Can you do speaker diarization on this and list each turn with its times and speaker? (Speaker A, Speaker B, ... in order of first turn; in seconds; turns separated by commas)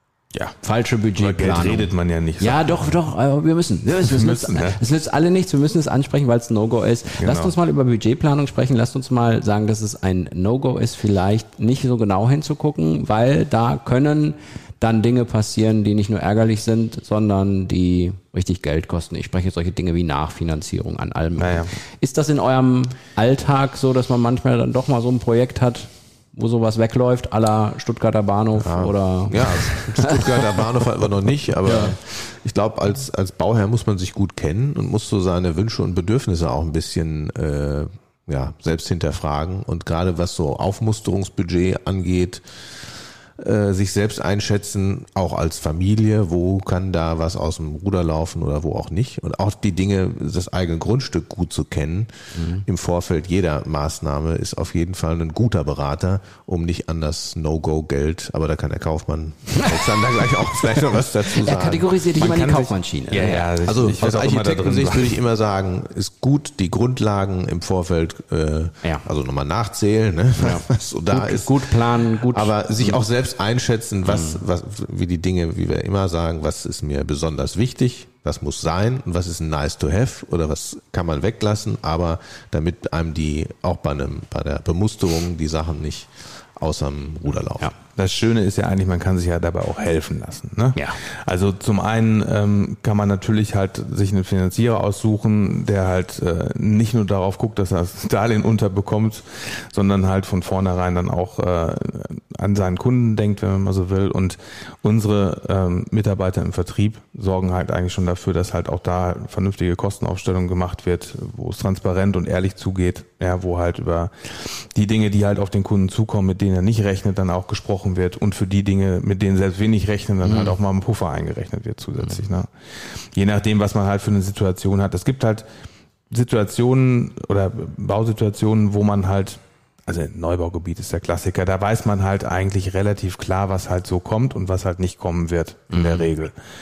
Speaker A: 0.6-30.7, Speaker B: 1.1-3.0, Speaker B: 4.0-4.8, Speaker B: 7.2-7.5, Speaker B: 21.4-21.7, Speaker C: 28.6-62.3, Speaker A: 31.6-32.0, Speaker A: 52.3-52.6, Speaker A: 59.5-60.3, Speaker A: 61.3-63.5, Speaker B: 62.2-65.2, Speaker C: 63.6-87.7, Speaker A: 70.4-73.0, Speaker A: 74.0-74.4, Speaker B: 87.9-125.5, Speaker A: 120.2-120.6, Speaker B: 126.1-136.3, Speaker A: 135.7-136.1